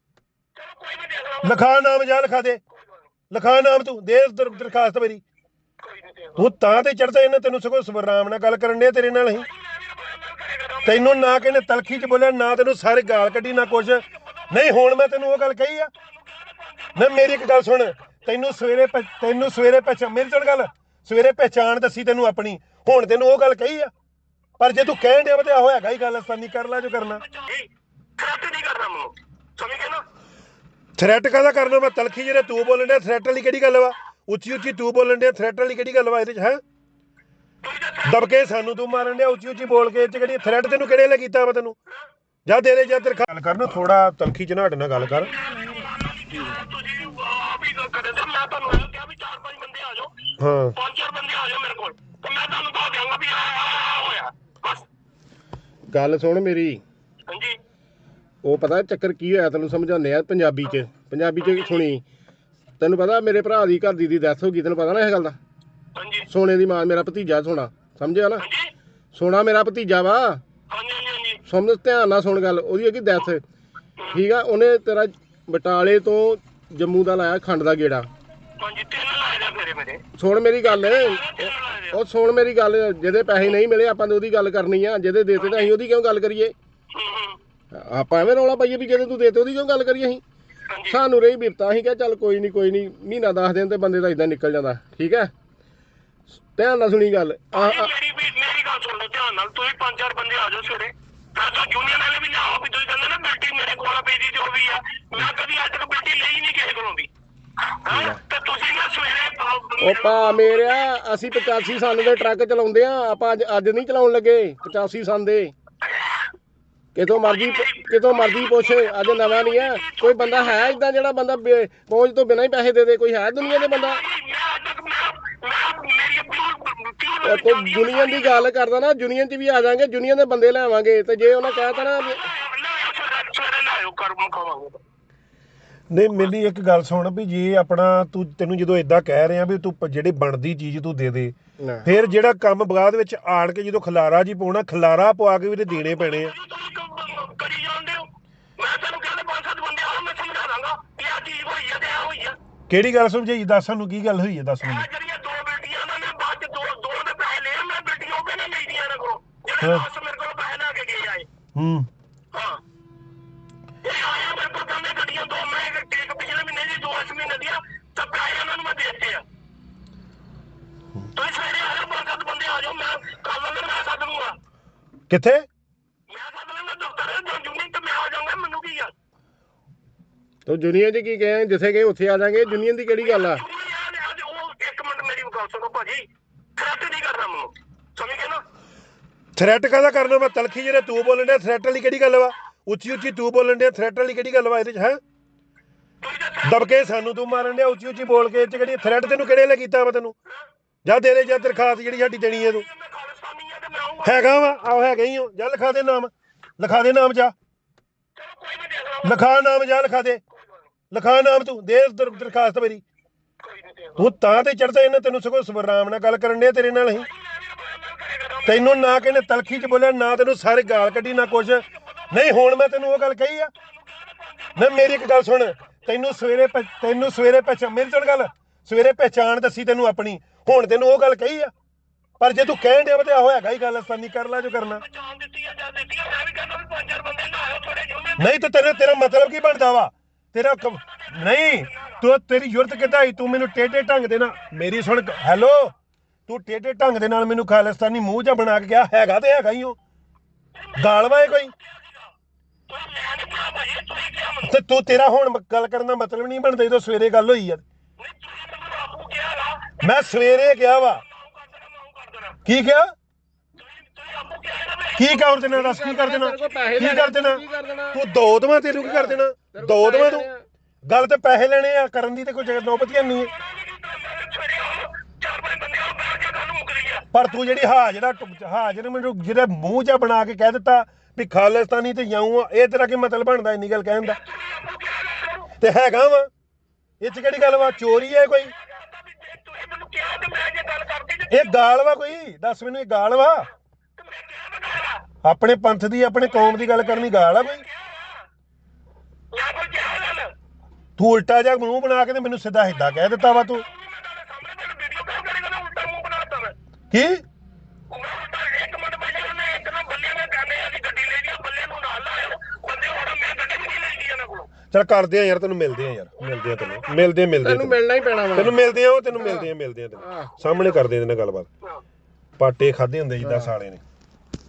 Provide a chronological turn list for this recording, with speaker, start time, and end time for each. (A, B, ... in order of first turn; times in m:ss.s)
0:00.6-0:01.6 A
0:01.4-0:02.6 B
0:03.3-0:05.2 B
0:05.8-0:06.5 A
0:06.4-0:09.5 B
0:09.4-0:11.0 A
0:10.8-0:15.9 B
0:16.0-0:17.2 A
0:17.0-0:23.9 B
0:24.6-0:27.2 B
0:27.3-0:30.1 A
0:31.0-0:36.6 B
0:37.6-0:38.3 A
0:38.0-0:41.8 B
0:42.5-0:45.3 B
0:45.2-0:54.9 A
0:50.4-0:50.8 B
0:55.9-0:56.8 C
0:57.3-0:57.6 A
0:58.4-1:02.0 C
1:01.4-1:01.9 A
1:02.8-1:05.4 C
1:06.0-1:06.3 A
1:06.3-1:08.5 C
1:08.4-1:08.7 A
1:09.1-1:10.4 C
1:10.7-1:11.4 A
1:11.5-1:13.4 C
1:14.1-1:18.1 C
1:18.6-1:20.0 A
1:20.2-1:26.5 C
1:20.6-1:22.0 A
1:25.4-1:25.7 A
1:26.9-1:27.4 A
1:27.7-1:30.2 C
1:30.7-1:31.0 A
1:30.9-1:35.3 C
1:36.6-1:37.9 C
1:37.5-1:47.1 A
1:47.7-1:50.8 A
1:47.9-1:48.2 C
1:49.8-1:55.5 C
1:56.0-1:56.2 A
1:57.0-2:04.0 C
1:57.2-2:00.8 A
2:03.4-2:08.5 A
2:07.2-2:12.3 C
2:11.6-2:14.8 A
2:15.9-2:26.4 B
2:21.6-2:21.9 C
2:25.7-2:32.4 A
2:32.7-2:34.9 B
2:34.6-2:41.3 A
2:39.6-2:39.9 B
2:41.6-2:41.9 B
2:42.3-2:42.6 A
2:43.8-2:49.2 A
2:51.1-2:54.4 A
2:55.1-2:55.5 B
2:56.1-2:58.9 A
3:00.5-3:03.4 C
3:03.0-3:08.4 A
3:09.4-3:15.0 B
3:16.0-3:16.7 A
3:16.4-3:20.2 B
3:20.8-3:22.7 B
3:22.4-3:24.3 A
3:24.0-3:27.3 B
3:28.2-3:29.2 A
3:29.0-3:30.2 B
3:30.9-3:32.8 B
3:33.4-3:34.1 A
3:34.0-3:37.1 B
3:37.0-3:38.6 A
3:38.4-3:43.5 B
3:43.6-3:44.7 A
3:44.6-3:51.5 B
3:52.2-3:54.8 B
3:54.8-3:58.3 A
3:58.2-4:05.8 B
4:06.3-4:09.8 B
4:10.6-4:12.1 A
4:10.8-4:11.5 B
4:12.7-4:14.6 A
4:14.4-4:17.6 B
4:18.0-4:22.4 A
4:19.8-4:21.0 B
4:22.4-4:22.9 B
4:23.6-4:25.3 A
4:25.0-4:30.3 B
4:25.5-4:28.0 C
4:28.8-4:30.5 C
4:30.9-4:33.3 B
4:33.2-4:37.1 A
4:37.1-4:44.2 B
4:44.0-4:45.6 A
4:45.6-4:46.3 B
4:47.0-4:48.5 B
4:48.5-4:51.5 A
4:51.3-4:53.5 B
4:54.0-4:55.0 A
4:55.2-4:57.6 B
4:56.4-4:58.3 A
4:59.3-5:00.3 A
5:01.0-5:03.6 B
5:03.4-5:06.6 A
5:06.9-5:07.2 B
5:07.9-5:14.5 A
5:14.7-5:17.8 B
5:16.2-5:16.8 A
5:17.4-5:18.6 C
5:18.3-5:21.5 B
5:19.1-5:20.4 C
5:22.4-5:23.8 B
5:23.2-5:23.5 C